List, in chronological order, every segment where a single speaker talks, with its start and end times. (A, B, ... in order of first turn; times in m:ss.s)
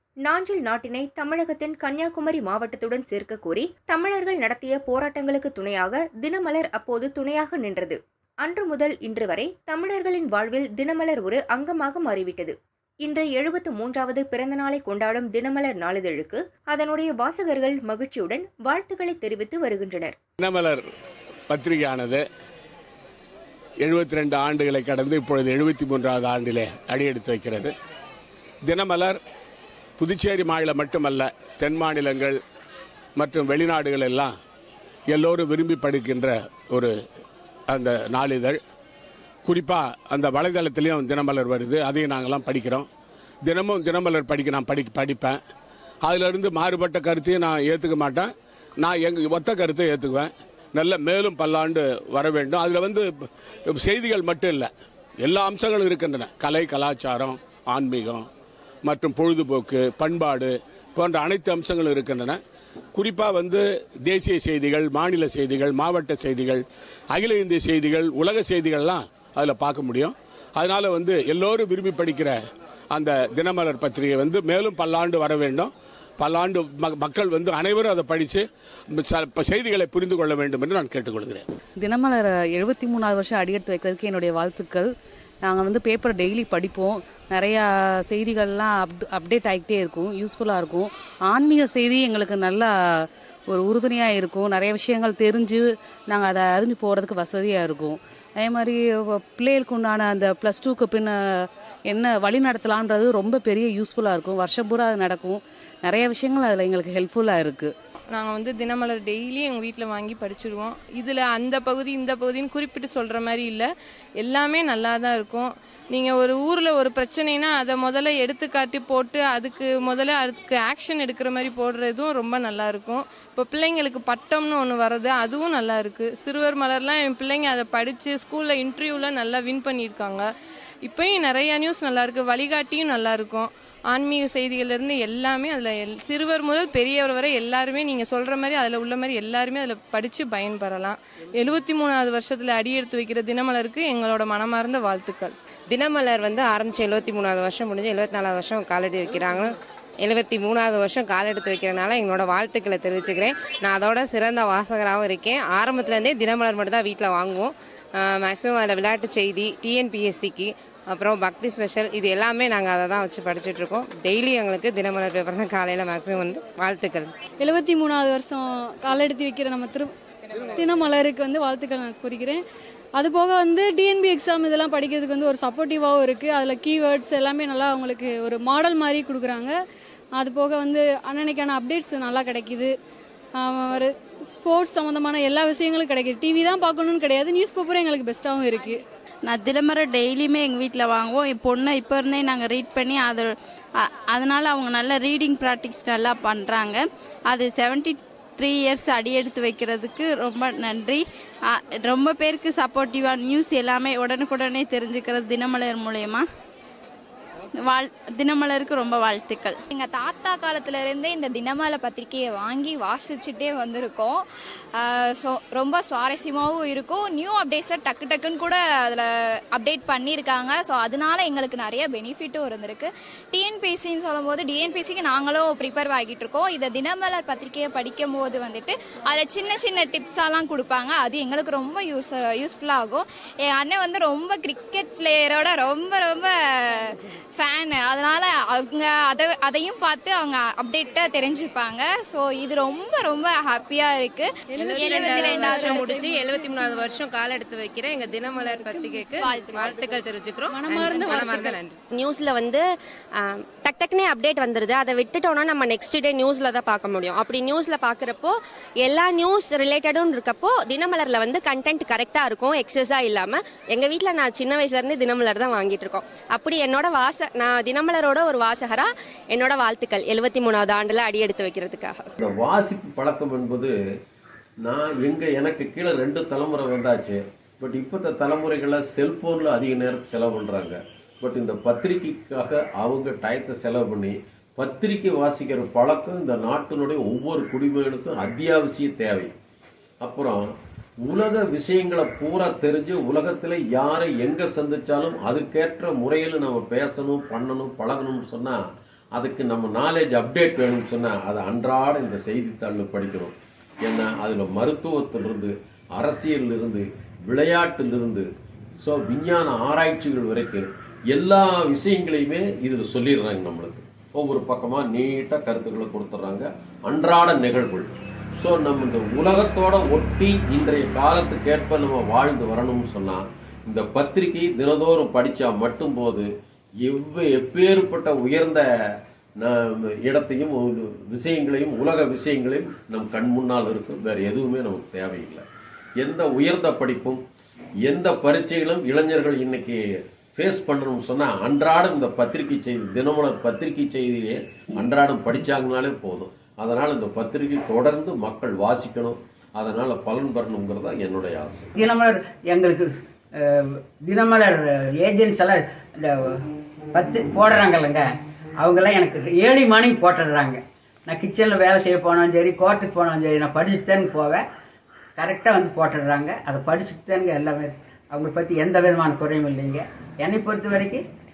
0:00.3-0:12.5 A
0:13.1-0:20.1 A
0:20.4-0:20.8 B
0:21.5-0:22.2 B
0:23.8-0:27.7 B
0:28.6-0:29.2 B
0:30.0-0:32.4 B
0:33.2-0:34.3 B
0:35.1-0:36.9 B
0:37.7-0:38.6 B
0:39.4-0:42.9 B
0:43.4-0:45.4 B
0:46.0-0:53.1 B
0:53.7-0:54.7 B
0:55.2-0:58.3 B
0:58.8-1:02.4 B
1:02.9-1:12.4 B
1:12.9-1:21.4 B
1:21.8-1:24.9 C
1:25.4-1:41.2 C
1:41.9-1:47.7 C
1:48.1-2:10.3 D
2:10.8-2:25.3 D
2:25.7-2:29.4 E
2:30.3-2:33.3 E
2:33.8-2:37.5 E
2:38.2-2:40.4 E
2:41.0-2:47.0 E
2:47.4-2:49.9 F
2:50.6-2:52.4 F
2:53.0-2:59.6 F
3:00.2-3:02.7 F
3:03.4-3:08.8 F
3:09.2-3:26.3 G
3:27.6-3:29.6 G
3:29.7-3:34.2 H
3:34.8-4:06.0 H
4:04.6-4:06.8 F
4:04.7-4:11.7 E
4:09.2-4:10.0 H
4:10.5-4:11.6 F
4:11.9-4:12.6 I
4:13.2-4:32.1 I
4:32.2-4:33.7 J
4:34.6-4:49.3 J
4:50.0-4:50.4 J
4:51.0-4:58.6 J
4:59.2-5:08.3 J
5:08.8-5:26.3 J
5:26.8-5:28.7 J
5:29.4-5:35.4 J
5:36.0-5:37.2 J
5:37.9-5:39.8 J
5:40.4-5:51.7 J
5:51.8-5:52.9 K
5:53.4-5:56.4 K
5:56.9-5:58.1 K
5:58.6-6:04.4 K
6:05.2-6:11.0 K